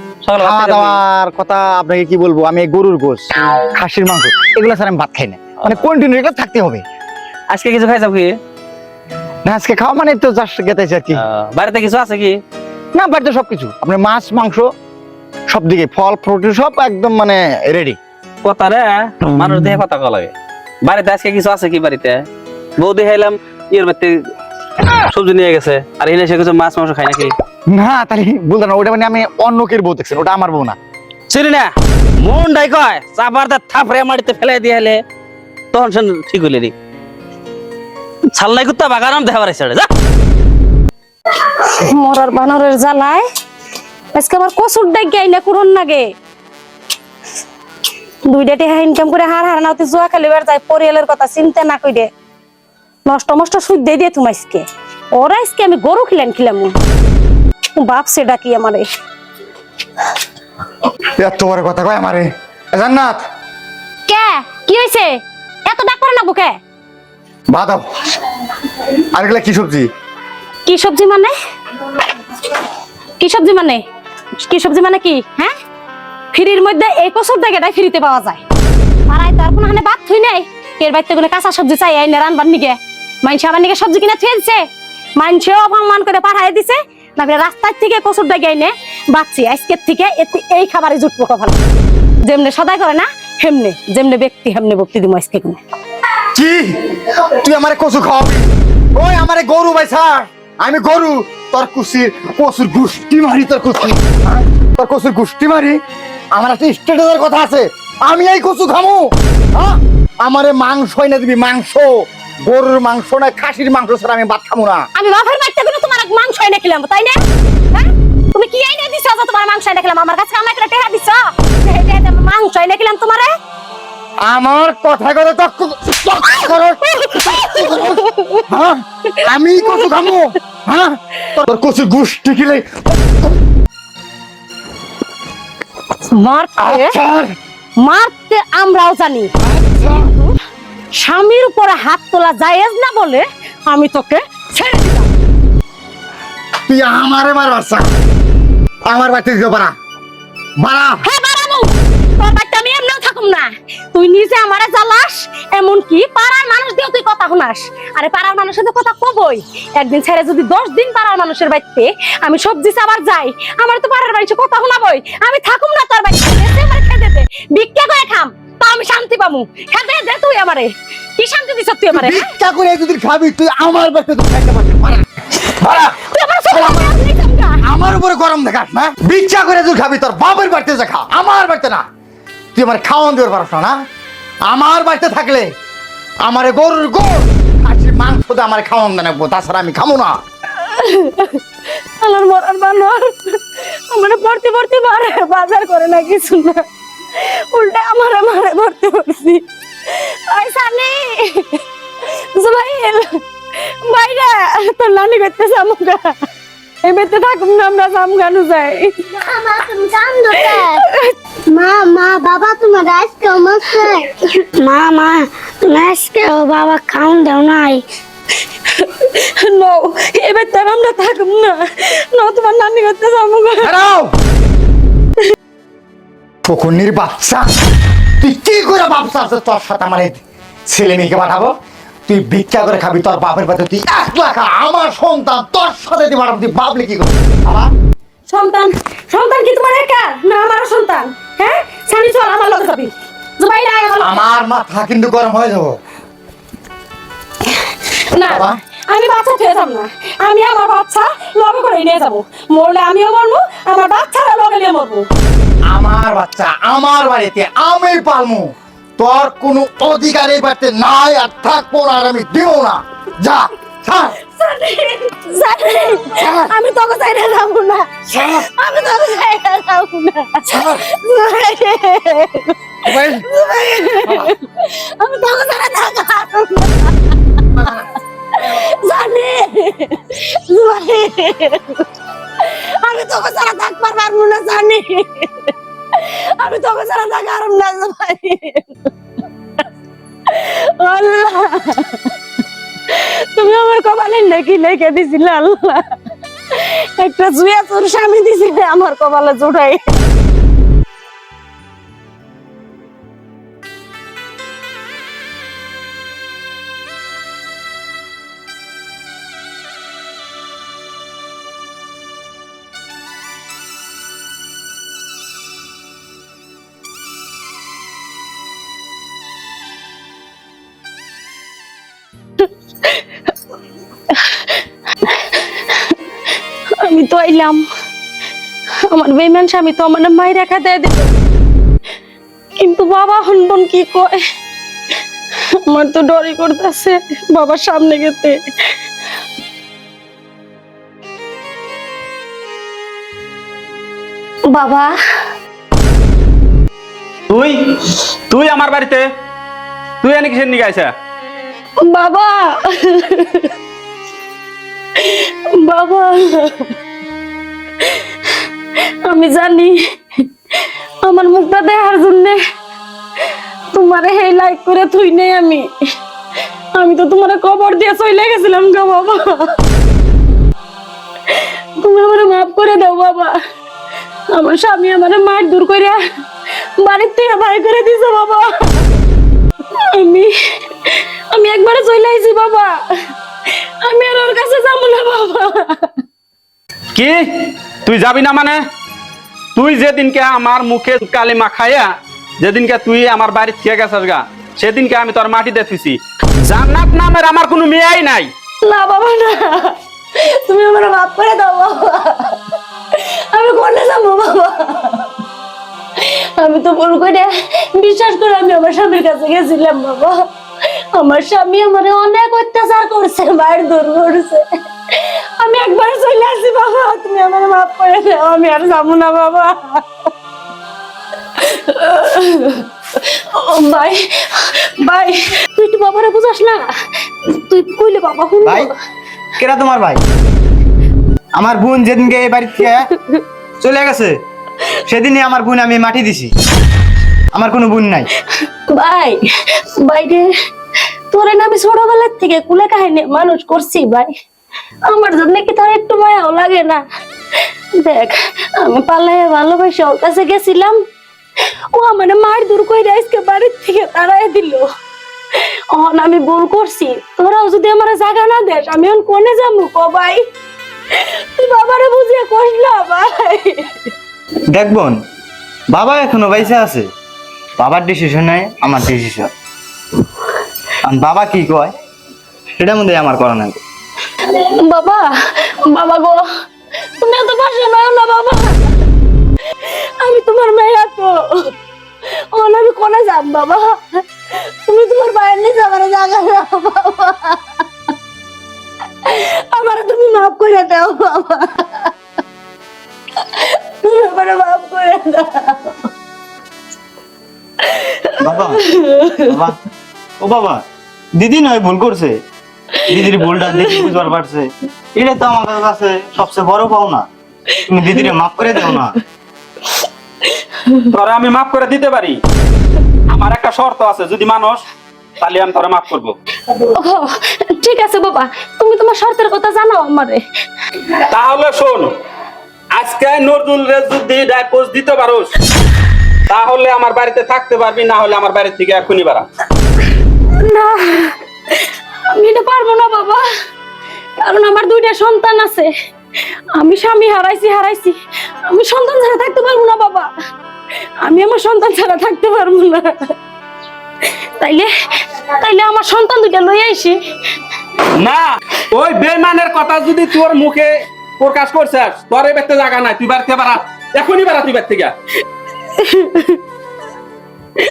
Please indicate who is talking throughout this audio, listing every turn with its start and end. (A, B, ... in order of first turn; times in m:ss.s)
0:00.2-0:01.0 A
0:00.4-0:06.8 B
0:07.5-0:08.4 A
0:09.4-0:11.2 B
0:11.2-0:12.4 A
0:12.9-0:14.7 B
0:15.5-0:18.0 B
0:18.4-0:20.3 A
0:20.8-0:22.3 A
0:22.8-0:24.2 A
0:24.9-0:27.4 A
0:27.7-0:30.8 B
0:31.3-0:35.0 A
0:35.7-0:36.7 A
0:38.3-0:39.9 A
0:41.5-0:43.2 C
0:44.2-0:46.1 C
0:48.3-0:52.1 C
0:53.1-0:56.8 C
0:57.8-0:58.9 C
1:01.2-1:03.3 B
1:04.1-1:05.1 C
1:05.7-1:06.6 C
1:07.5-1:07.9 B
1:09.0-1:09.9 B
1:10.7-1:11.3 C
1:13.2-1:13.8 C
1:14.4-1:15.5 C
1:16.3-1:18.4 C
1:19.1-1:24.7 C
1:25.2-1:31.6 C
1:32.3-1:35.6 C
1:36.3-1:45.8 B
1:46.3-1:54.9 B
1:55.0-1:57.2 C
1:57.7-2:03.4 C
2:04.2-2:12.7 B
2:07.0-2:08.5 C
2:09.6-2:10.0 C
2:16.1-2:17.0 C
2:16.6-2:17.4 B
2:17.8-2:19.3 C
2:19.4-2:20.1 B
2:19.9-2:20.3 C
2:21.0-2:25.1 C
2:26.7-2:28.0 B
2:28.9-2:29.8 B
2:30.6-2:31.0 B
2:31.0-2:52.3 C
2:51.9-2:56.0 B
2:56.0-2:57.6 C
2:56.5-2:57.0 B
2:57.6-3:01.8 B
3:02.5-3:03.8 B
3:04.5-3:05.5 B
3:06.2-3:10.2 B
3:10.6-3:11.4 C
3:12.0-3:26.3 C
3:26.8-3:29.0 C
3:29.1-3:30.8 D
3:30.4-3:31.1 C
3:31.5-3:37.8 D
3:38.7-3:43.7 C
3:43.6-3:44.2 B
3:46.4-3:47.5 B
3:48.2-3:51.5 B
3:52.1-3:57.7 B
3:58.3-4:04.2 C
4:04.0-4:05.8 B
4:07.5-4:15.1 C
4:08.3-4:08.6 B
4:15.7-4:24.2 B
4:24.3-4:36.9 C
4:26.2-4:26.5 B
4:28.1-4:28.5 B
4:30.5-4:30.9 B
4:32.8-4:33.3 B
4:34.0-4:34.3 B
4:37.5-4:37.9 B
4:38.3-4:41.9 C
4:42.4-4:48.9 C
4:50.3-4:52.1 C
4:52.9-4:56.0 C
4:56.5-5:00.0 C
5:24.1-5:24.5 C
5:25.1-5:26.0 C
5:26.8-5:27.6 C
5:28.9-5:31.1 C
5:32.6-5:34.2 C
5:35.7-5:38.4 C
5:44.5-5:44.9 C
5:47.3-5:49.0 A
5:50.0-5:50.9 A
5:51.8-5:53.5 C
5:55.0-5:56.7 C
5:57.8-5:58.4 C
5:59.0-6:00.2 C
6:01.0-6:02.4 C
6:03.7-6:05.7 C
6:06.8-6:09.6 C
6:11.3-6:13.4 C
6:14.3-6:16.0 C
6:16.8-6:18.9 C
6:19.8-6:20.3 C
6:20.9-6:22.8 C
6:23.8-6:26.0 C
6:27.0-6:28.6 A
6:29.6-6:31.9 A
6:32.4-6:38.3 A
6:38.6-6:42.4 C
6:42.9-6:45.1 C
6:46.0-6:50.2 C
6:50.9-6:59.9 C
7:01.4-7:06.7 C
7:07.2-7:08.7 C
7:08.4-7:08.7 E
7:09.4-7:10.0 E
7:11.4-7:12.9 E
7:12.9-7:13.2 C
7:13.6-7:14.1 E
7:14.9-7:16.3 E
7:17.3-7:18.1 E
7:18.7-7:20.3 C
7:21.1-7:24.1 C
7:24.9-7:26.8 C
7:27.8-7:30.8 C
7:31.7-7:34.7 C
7:35.7-7:40.3 C
7:40.9-7:43.9 C
7:44.5-7:45.0 E
7:45.7-7:46.9 E
7:47.6-7:49.3 E
7:50.8-7:51.7 E
7:52.6-7:53.6 E
7:54.2-7:56.2 C
7:57.0-7:58.7 C
7:59.6-8:01.5 C
8:02.2-8:07.5 C
8:09.0-8:11.9 C
8:13.2-8:15.9 C
8:17.6-8:19.3 C
8:18.2-8:18.6 E
8:19.2-8:19.6 E
8:20.2-8:20.6 E
8:21.2-8:22.2 E
8:22.9-8:27.1 E
8:23.3-8:23.9 C
8:27.7-8:29.0 E
8:30.3-8:30.9 C
8:30.9-8:32.2 A
8:33.1-8:34.6 A
8:35.2-8:36.2 A
8:36.5-8:40.2 C
8:40.9-8:41.9 A
8:42.7-8:45.3 A
8:46.3-8:49.2 A
8:50.4-8:53.2 C
8:54.2-8:55.7 C
8:56.6-9:00.1 C
9:01.0-9:03.1 C
9:04.4-9:07.0 C
9:07.9-9:14.9 A
9:15.8-9:16.4 C